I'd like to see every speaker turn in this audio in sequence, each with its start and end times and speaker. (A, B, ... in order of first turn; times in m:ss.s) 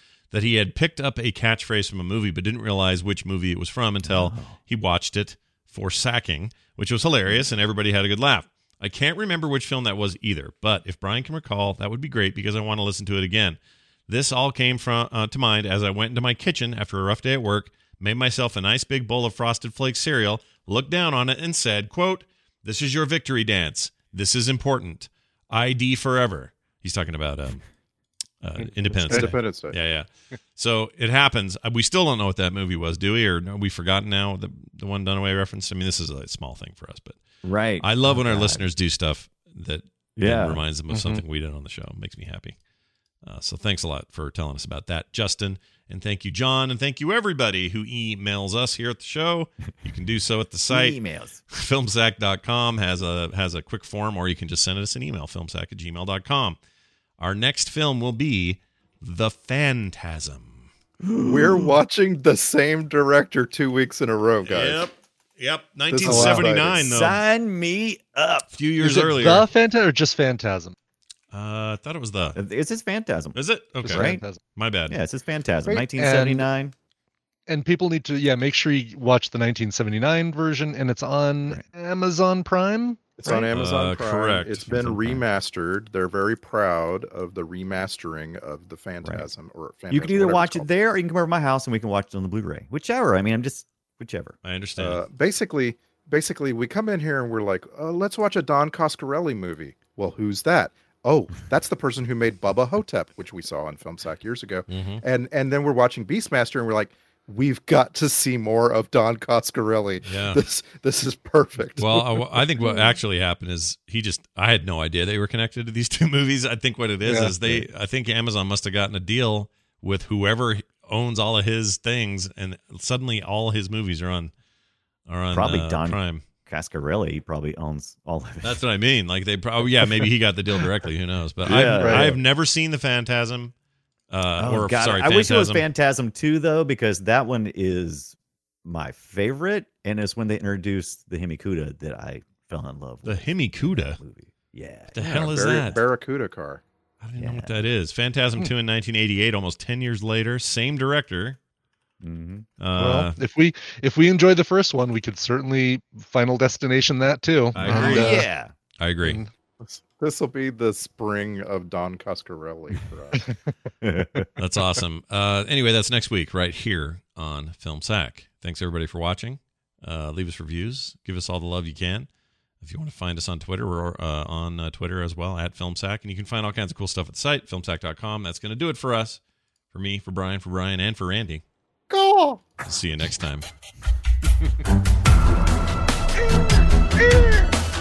0:00.3-0:27.6 A
0:04.0-0:04.6 B
0:28.4-0:37.2 A
0:28.8-0:29.8 C
0:29.1-0:29.3 B
0:37.4-0:38.7 B
0:37.8-0:42.6 A
0:40.2-0:40.6 B
0:40.9-0:41.2 D
0:43.2-0:51.0 A
0:50.7-0:51.4 B
0:51.5-0:56.6 A
0:57.2-1:00.7 A
1:01.0-1:01.8 B
1:01.2-1:04.8 C
1:04.5-1:07.2 A
1:05.9-1:06.9 C
1:06.0-1:06.4 D
1:06.8-1:08.5 B
1:08.5-1:09.5 A
1:08.8-1:10.8 D
1:11.3-1:12.4 A
1:12.4-1:13.4 B
1:13.3-1:15.0 A
1:13.8-1:14.4 D
1:13.9-1:14.2 B
1:14.9-1:16.8 B
1:15.7-1:16.5 D
1:17.5-1:23.6 D
1:23.2-1:30.7 C
1:23.5-1:25.2 A
1:29.9-1:34.4 B
1:34.4-1:35.0 A
1:34.8-1:52.0 C
1:44.7-1:45.0 A
1:50.0-1:50.4 A
1:51.8-2:04.3 A
1:57.0-1:57.3 D
2:05.1-2:06.2 A
2:05.3-2:08.6 B
2:08.4-2:13.5 A
2:11.4-2:12.2 B
2:11.7-2:12.1 D
2:14.1-2:15.7 A
2:14.4-2:18.1 B
2:18.6-2:25.8 B
2:23.0-2:24.0 A
2:24.9-2:25.8 A
2:25.0-2:26.6 C
2:27.0-2:31.4 A
2:27.2-2:27.6 B
2:32.0-2:32.5 B
2:32.6-2:33.2 A
2:32.8-2:38.3 D
2:37.5-2:38.3 A
2:37.6-2:38.5 B
2:38.8-2:39.2 A
2:39.0-2:39.3 D
2:39.6-2:43.2 C
2:43.8-2:44.3 B
2:44.4-2:52.1 A
2:52.6-3:01.4 A
3:01.9-3:02.4 C
3:02.6-3:03.5 A